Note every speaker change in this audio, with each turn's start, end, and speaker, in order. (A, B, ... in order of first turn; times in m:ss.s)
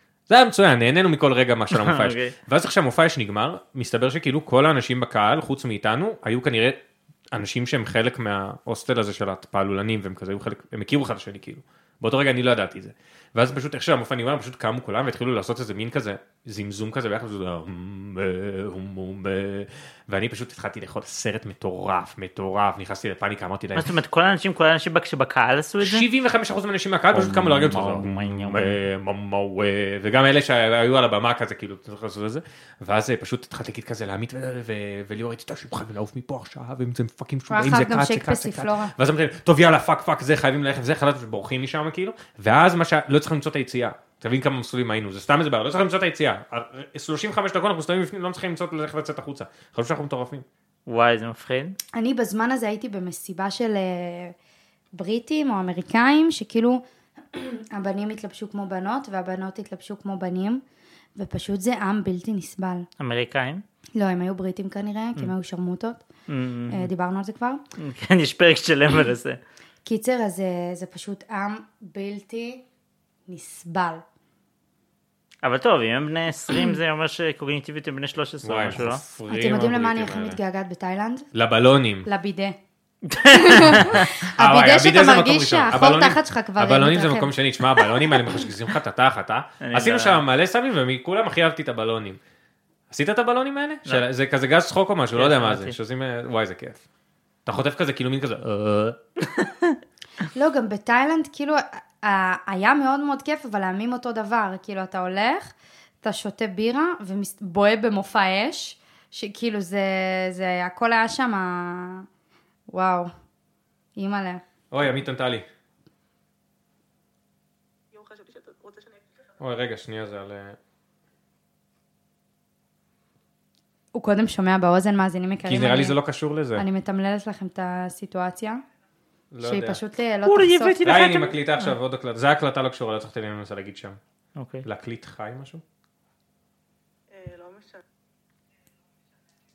0:00.3-0:06.8 A
0:01.7-0:02.3 B
0:07.3-0:23.9 A
0:23.8-0:26.0 B
0:25.8-0:50.4 A
0:27.1-0:28.8 B
0:37.5-0:38.9 C
0:50.9-0:51.8 B
0:51.9-0:54.3 C
0:54.9-0:56.8 C
0:57.3-1:00.6 C
1:01.2-1:02.9 C
1:03.0-1:03.6 B
1:04.0-1:06.0 C
1:06.3-1:06.9 B
1:06.7-1:07.6 C
1:07.8-1:09.4 B
1:09.8-1:12.6 C
1:13.3-1:14.0 C
1:15.4-1:19.0 B
1:18.4-1:20.4 A
1:19.3-1:21.3 C
1:21.3-1:22.1 A
1:22.0-1:22.6 C
1:23.0-1:24.0 B
1:23.3-1:27.3 C
1:23.8-1:32.2 A
1:29.6-1:30.2 B
1:32.9-1:36.8 A
1:35.2-1:35.7 B
1:37.4-1:39.0 A
1:39.2-1:39.8 B
1:40.2-1:52.1 C
1:52.7-1:53.1 C
1:54.0-1:54.4 C
1:54.7-1:55.4 A
1:57.9-1:59.3 D
1:59.4-2:00.6 A
2:03.9-2:06.0 C
2:05.4-2:06.6 A
2:06.6-2:08.6 C
2:09.3-2:09.8 A
2:09.4-2:10.8 C
2:10.2-2:11.7 B
2:10.8-2:14.0 A
2:14.4-2:14.6 B
2:14.6-2:15.6 A
2:17.1-2:17.8 D